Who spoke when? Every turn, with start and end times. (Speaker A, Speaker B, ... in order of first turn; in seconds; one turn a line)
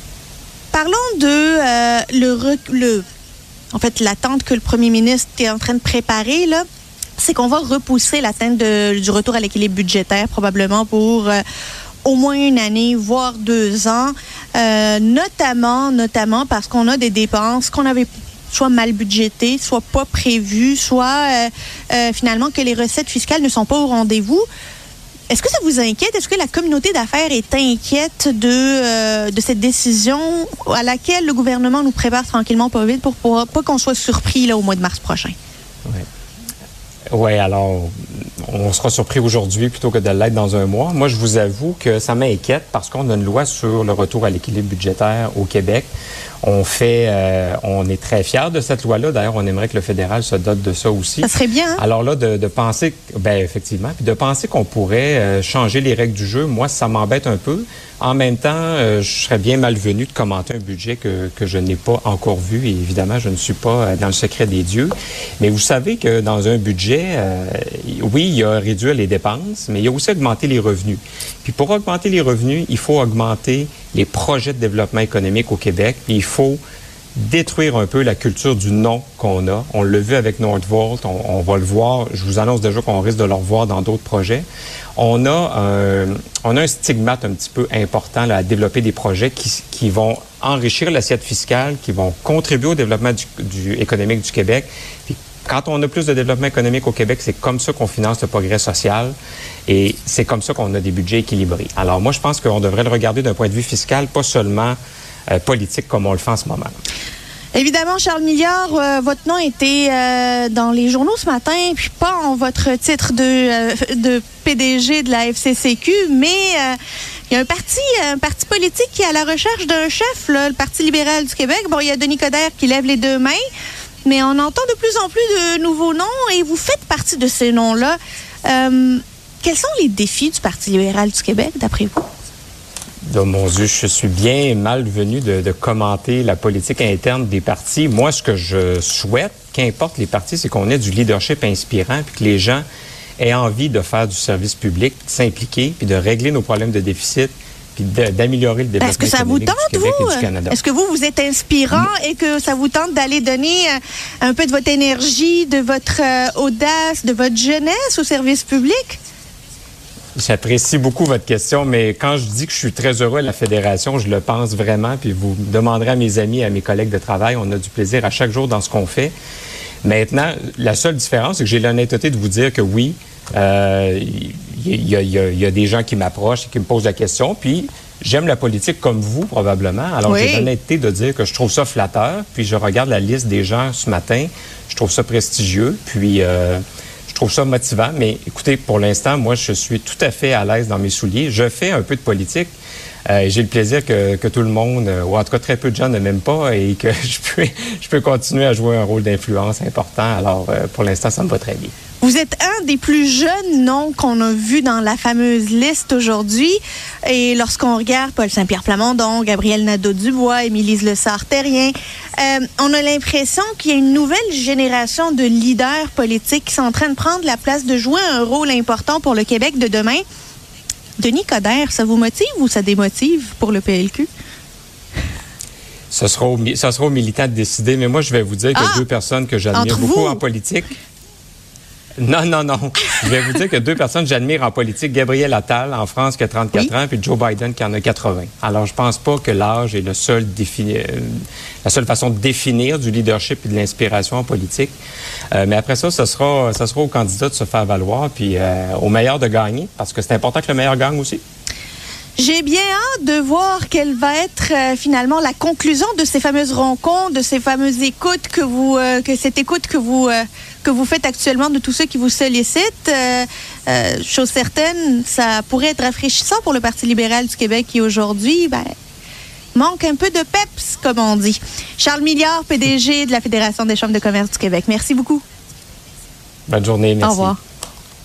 Speaker A: 0.7-3.0
Speaker A: 3.7-6.6
Speaker A: 7.2-11.4
Speaker A: 12.0-24.4
Speaker A: 25.3-35.3
Speaker B: 37.1-45.9
Speaker B: 46.4-76.6
Speaker A: 51.2-51.8
Speaker B: 77.2-84.4
Speaker B: 85.0-99.1
Speaker B: 99.7-104.8
Speaker B: 105.3-106.7
Speaker A: 107.5-116.8
Speaker A: 117.3-123.4
Speaker A: 124.0-132.1
Speaker B: 133.1-142.6
Speaker B: 143.2-150.6
Speaker A: 148.8-159.0
Speaker B: 160.2-169.1
Speaker B: 169.8-192.5
Speaker A: 180.0-180.5
Speaker B: 193.1-201.7
Speaker A: 202.0-220.0
Speaker A: 221.0-224.1
Speaker B: 225.9-230.7
Speaker A: 228.6-228.8
Speaker A: 229.5-230.2
Speaker B: 232.0-244.7
Speaker B: 245.3-251.2
Speaker A: 252.2-268.7
Speaker A: 269.5-275.2
Speaker B: 276.5-277.3
Speaker A: 277.0-277.4